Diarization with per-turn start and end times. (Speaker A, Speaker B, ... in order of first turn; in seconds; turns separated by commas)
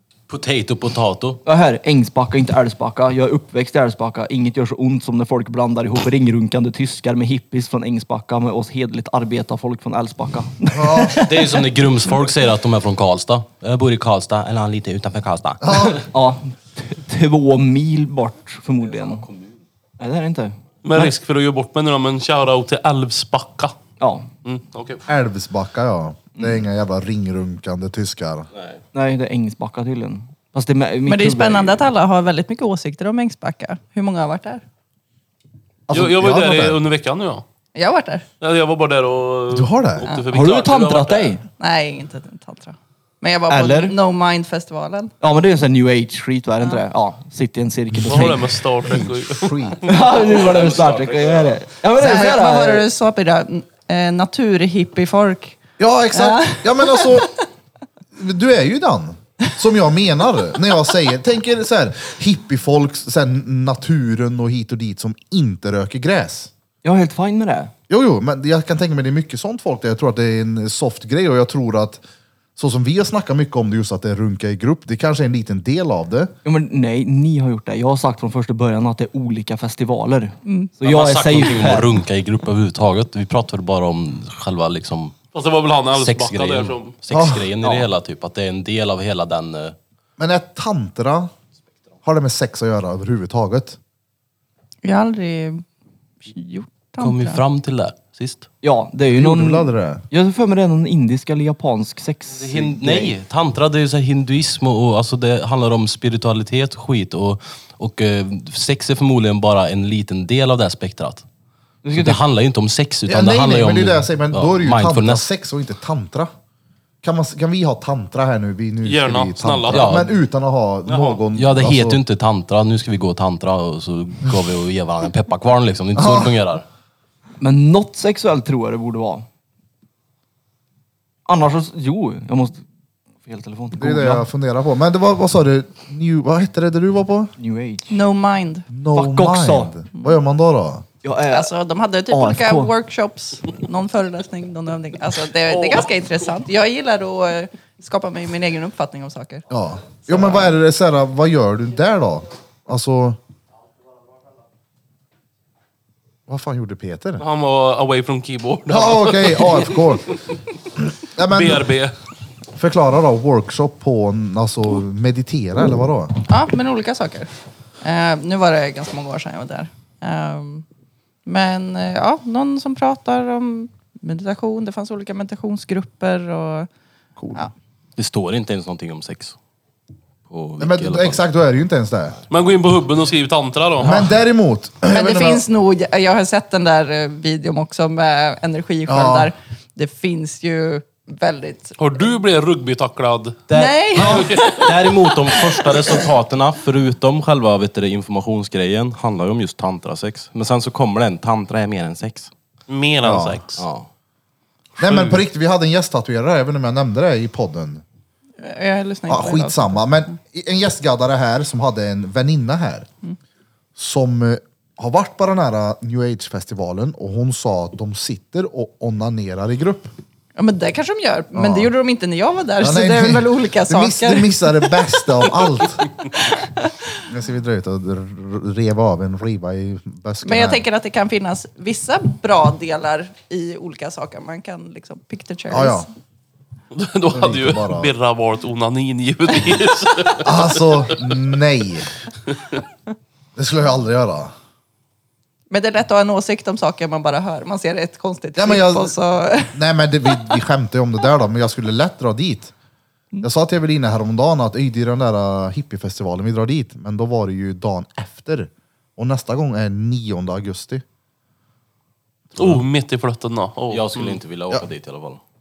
Speaker A: 0.3-1.4, Speaker B: 1.4-11.7, Speaker C: 10.7-11.2, Speaker A: 11.1-16.0, Speaker C: 15.6-16.0, Speaker B: 16.1-19.2, Speaker A: 18.8-19.6, Speaker B: 20.0-21.1, Speaker D: 20.8-23.7, Speaker B: 24.0-24.3, Speaker D: 24.4-25.0, Speaker C: 25.1-28.5, Speaker A: 28.5-28.8, Speaker B: 28.9-31.9, Speaker E: 31.0-34.6, Speaker C: 35.9-36.8, Speaker D: 35.9-37.4, Speaker E: 37.7-38.2, Speaker D: 38.4-41.4, Speaker C: 39.5-40.1, Speaker B: 40.3-41.4, Speaker E: 41.6-45.1, Speaker B: 43.5-44.0, Speaker B: 45.2-48.6, Speaker D: 48.0-50.0, Speaker C: 48.9-49.8, Speaker B: 49.9-52.9, Speaker A: 50.0-51.7, Speaker E: 51.9-55.6, Speaker C: 52.0-52.3, Speaker C: 55.8-57.3, Speaker E: 56.1-57.3, Speaker C: 58.1-66.5, Speaker B: 66.8-67.7, Speaker C: 67.9-72.0, Speaker C: 72.5-76.3, Speaker B: 76.4-81.9, Speaker E: 80.4-80.7, Speaker A: 80.8-85.2, Speaker D: 85.3-86.9, Speaker A: 85.9-89.8, Speaker C: 87.1-87.5, Speaker C: 90.2-91.3, Speaker C: 92.0-93.8, Speaker E: 94.8-95.6, Speaker E: 96.2-97.4, Speaker A: 97.0-98.5, Speaker B: 98.6-103.1, Speaker C: 99.1-100.0, Speaker A: 102.3-111.2, Speaker B: 111.8-112.2, Speaker A: 111.9-115.3, Speaker C: 113.1-116.3, Speaker C: 117.0-122.0, Speaker D: 118.8-120.1, Speaker A: 119.7-120.1, Speaker D: 120.9-121.2, Speaker A: 121.3-126.6, Speaker C: 125.9-126.3, Speaker B: 127.4-129.3, Speaker B: 131.2-132.6, Speaker B: 133.2-134.2, Speaker C: 133.8-137.3, Speaker B: 137.4-138.0, Speaker E: 137.9-138.7, Speaker C: 138.7-140.8, Speaker B: 138.9-139.7, Speaker B: 141.0-141.5, Speaker E: 141.3-149.4, Speaker B: 142.1-142.7, Speaker D: 145.5-145.8, Speaker C: 149.5-153.2, Speaker C: 156.3-157.2, Speaker D: 157.2-160.2, Speaker C: 158.7-160.1, Speaker C: 160.8-161.6, Speaker D: 161.2-161.9, Speaker C: 162.6-166.2, Speaker E: 166.3-167.3, Speaker E: 167.8-170.6, Speaker E: 171.2-176.7, Speaker C: 177.2-177.5, Speaker A: 178.0-179.3, Speaker A: 180.3-181.2, Speaker C: 180.6-182.2, Speaker D: 182.3-184.1, Speaker C: 183.8-185.4, Speaker E: 184.9-191.8, Speaker C: 188.9-189.3, Speaker D: 191.8-193.4, Speaker E: 193.5-196.0, Speaker A: 193.5-202.3, Speaker D: 194.0-194.6, Speaker D: 202.7-203.6, Speaker C: 203.0-203.4, Speaker A: 203.6-203.9, Speaker C: 204.8-207.8, Speaker D: 204.8-205.2, Speaker E: 208.4-209.9, Speaker C: 209.1-212.9, Speaker C: 213.8-219.9, Speaker E: 220.3-224.8, Speaker C: 221.3-221.7, Speaker C: 222.6-225.8, Speaker E: 226.2-226.7, Speaker C: 227.1-230.6, Speaker E: 230.2-235.9, Speaker C: 235.5-235.9, Speaker D: 236.7-240.3, Speaker C: 237.1-237.9, Speaker C: 240.2-241.9, Speaker C: 243.3-244.3, Speaker E: 245.5-249.6, Speaker C: 248.3-248.9, Speaker C: 249.5-252.5, Speaker C: 253.2-260.8, Speaker D: 262.4-264.2, Speaker A: 263.7-265.2